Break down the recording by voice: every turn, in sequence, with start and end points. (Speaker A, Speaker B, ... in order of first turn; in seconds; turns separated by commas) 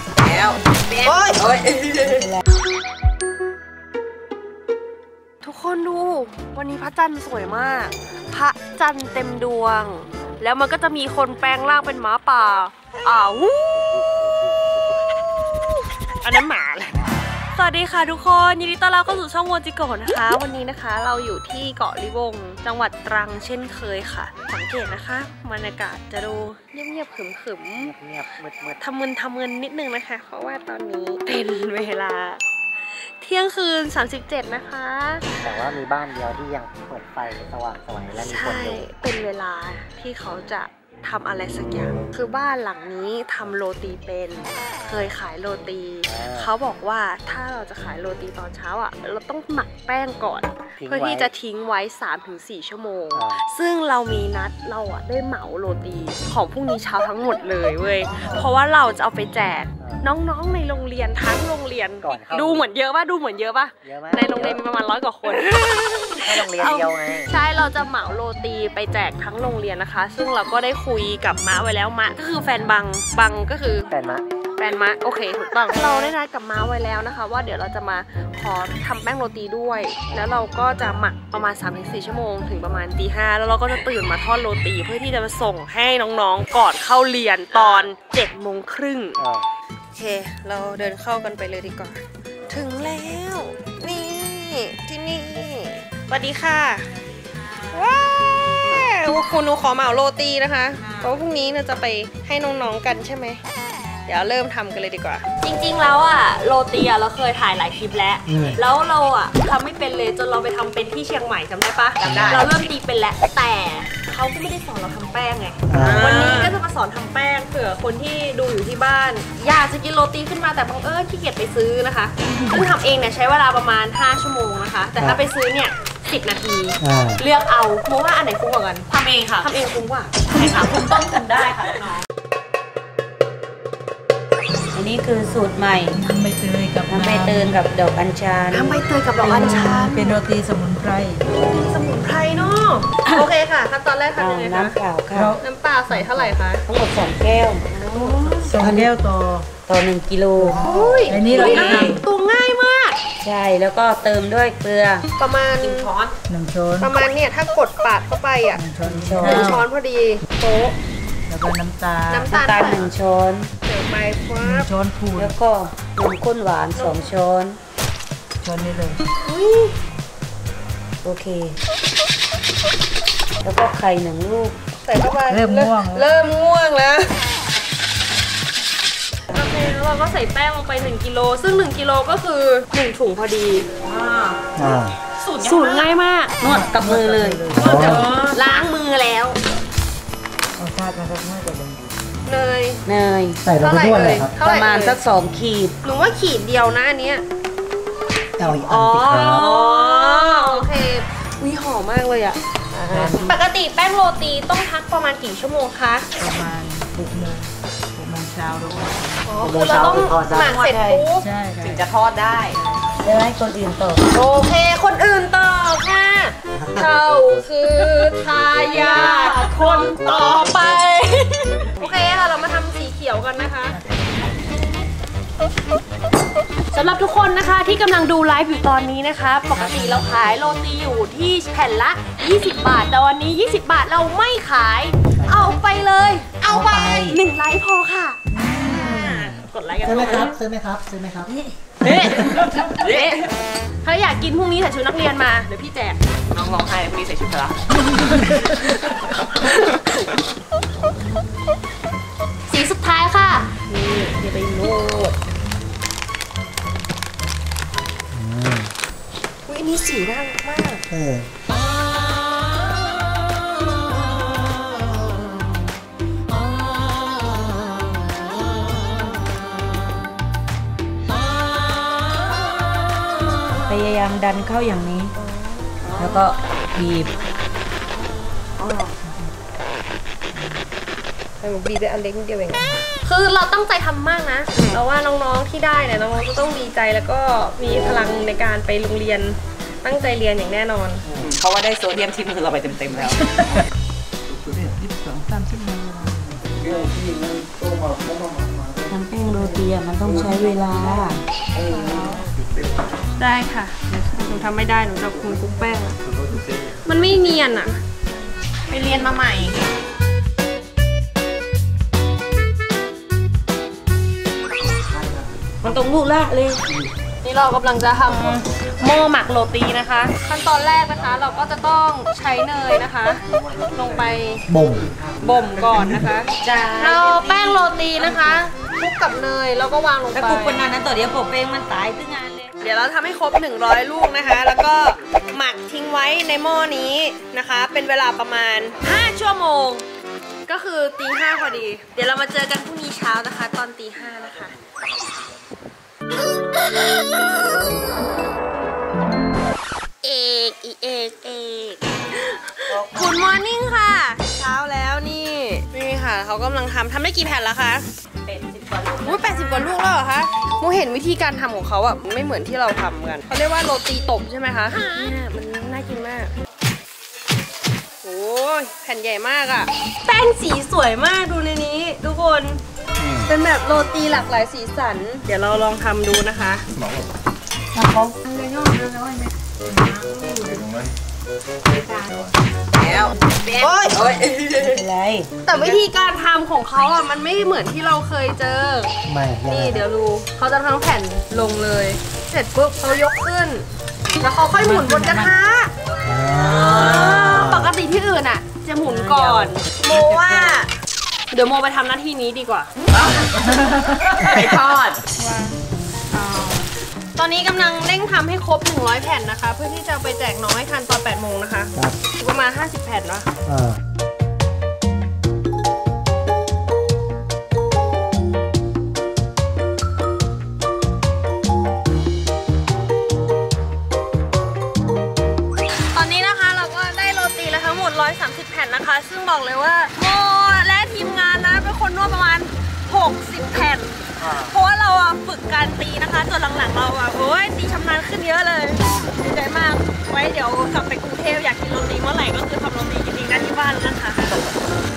Speaker A: 0.2-2.2, Speaker B: 2.0-2.4, Speaker C: 5.4-13.8, Speaker C: 16.2-27.9, Speaker D: 27.8-28.8, Speaker C: 28.8-32.4, Speaker C: 33.2-35.2, Speaker D: 35.4-38.8, Speaker C: 38.1-73.9, Speaker D: 46.0-46.5, Speaker D: 50.8-51.3, Speaker D: 53.1-53.4, Speaker D: 59.8-60.0, Speaker D: 62.0-62.7, Speaker D: 63.8-64.6, Speaker D: 66.2-67.3, Speaker D: 73.9-74.2, Speaker C: 74.6-89.2, Speaker D: 89.2-89.5, Speaker C: 89.9-96.9, Speaker C: 97.7-103.4, Speaker C: 104.1-131.2, Speaker D: 108.3-108.6, Speaker A: 112.0-112.5, Speaker D: 112.0-112.5, Speaker D: 115.7-116.2, Speaker A: 115.7-116.5, Speaker D: 125.0-125.2, Speaker D: 126.8-127.2, Speaker A: 128.9-129.5, Speaker A: 130.3-132.0, Speaker B: 134.7-136.0, Speaker E: 135.9-137.6, Speaker B: 136.9-138.8, Speaker C: 138.5-140.1, Speaker E: 139.2-141.2, Speaker C: 141.3-144.8, Speaker B: 144.1-145.4, Speaker E: 145.1-146.3, Speaker C: 145.4-146.6, Speaker B: 146.6-148.9, Speaker C: 147.7-148.6, Speaker E: 148.4-149.5, Speaker B: 149.6-150.7, Speaker E: 150.4-152.0, Speaker C: 150.6-153.0, Speaker A: 151.5-151.8, Speaker B: 153.2-155.1, Speaker C: 155.2-155.9, Speaker A: 155.6-156.2, Speaker E: 156.3-156.9, Speaker C: 156.8-158.6, Speaker E: 158.5-159.6, Speaker B: 159.0-159.6, Speaker C: 159.2-160.7, Speaker E: 161.3-162.7, Speaker C: 162.1-162.8, Speaker B: 162.3-163.5, Speaker C: 163.6-164.7, Speaker E: 164.4-165.4, Speaker B: 165.1-167.6, Speaker C: 166.7-167.1, Speaker E: 168.4-169.0, Speaker C: 169.2-169.7, Speaker B: 171.0-171.6, Speaker B: 173.4-174.6, Speaker C: 174.8-177.2, Speaker E: 175.3-176.1, Speaker C: 179.3-183.7, Speaker A: 183.8-184.4, Speaker D: 184.5-185.0, Speaker A: 185.2-185.9, Speaker C: 185.4-186.3, Speaker B: 186.4-188.1, Speaker E: 186.4-187.7, Speaker D: 187.5-188.1, Speaker C: 187.6-189.4, Speaker A: 188.0-188.4, Speaker E: 190.6-191.8, Speaker C: 192.2-192.8, Speaker B: 192.8-193.4, Speaker D: 193.4-194.3, Speaker C: 193.6-195.0, Speaker B: 194.4-195.8, Speaker C: 195.8-197.2, Speaker D: 198.4-199.5, Speaker C: 198.4-206.1, Speaker B: 199.8-200.1, Speaker D: 202.9-203.2, Speaker E: 206.2-209.0, Speaker C: 209.2-211.3, Speaker D: 209.4-210.7, Speaker B: 210.7-211.0, Speaker E: 211.1-211.9, Speaker A: 211.6-212.6, Speaker E: 212.5-212.8, Speaker B: 213.0-214.1, Speaker C: 214.1-223.8, Speaker D: 216.6-216.9, Speaker A: 218.7-219.9, Speaker C: 226.7-240.4, Speaker D: 235.2-235.6, Speaker D: 236.4-237.2, Speaker D: 238.3-242.4, Speaker C: 241.8-243.3, Speaker A: 242.8-243.3, Speaker C: 243.8-246.0, Speaker A: 246.3-247.6, Speaker A: 248.1-248.7, Speaker C: 249.3-250.1, Speaker C: 252.5-255.2, Speaker D: 258.1-258.7, Speaker C: 259.5-260.8, Speaker D: 260.9-261.3, Speaker B: 273.6-275.1, Speaker B: 275.9-277.1, Speaker C: 281.4-291.0, Speaker A: 291.1-293.3, Speaker E: 294.5-296.4, Speaker B: 298.9-301.2, Speaker C: 301.6-302.2, Speaker C: 303.2-306.0, Speaker C: 306.8-307.8, Speaker C: 308.7-309.6, Speaker B: 315.6-316.6, Speaker C: 317.2-324.4, Speaker D: 324.5-325.0, Speaker C: 325.2-330.6, Speaker B: 326.4-327.4, Speaker B: 330.1-332.5, Speaker C: 332.6-339.8, Speaker C: 340.5-344.5, Speaker C: 346.7-347.2, Speaker C: 350.0-357.8, Speaker B: 352.7-353.1, Speaker B: 358.3-358.9, Speaker C: 359.0-366.3, Speaker C: 368.0-372.6, Speaker C: 373.2-376.6, Speaker B: 377.7-378.1, Speaker A: 378.4-380.6, Speaker C: 380.1-380.6, Speaker A: 382.8-384.7, Speaker C: 383.6-384.7, Speaker B: 384.6-385.3, Speaker C: 385.4-388.9, Speaker D: 389.0-389.8, Speaker C: 389.5-395.7, Speaker E: 394.5-395.3, Speaker D: 396.0-397.7, Speaker C: 396.3-400.7, Speaker E: 398.9-399.3, Speaker E: 399.9-400.5, Speaker C: 401.3-402.7, Speaker A: 402.9-405.1, Speaker C: 405.2-405.5, Speaker C: 406.2-406.5, Speaker C: 407.1-413.3, Speaker D: 413.4-413.8, Speaker C: 425.9-444.4, Speaker D: 434.2-434.5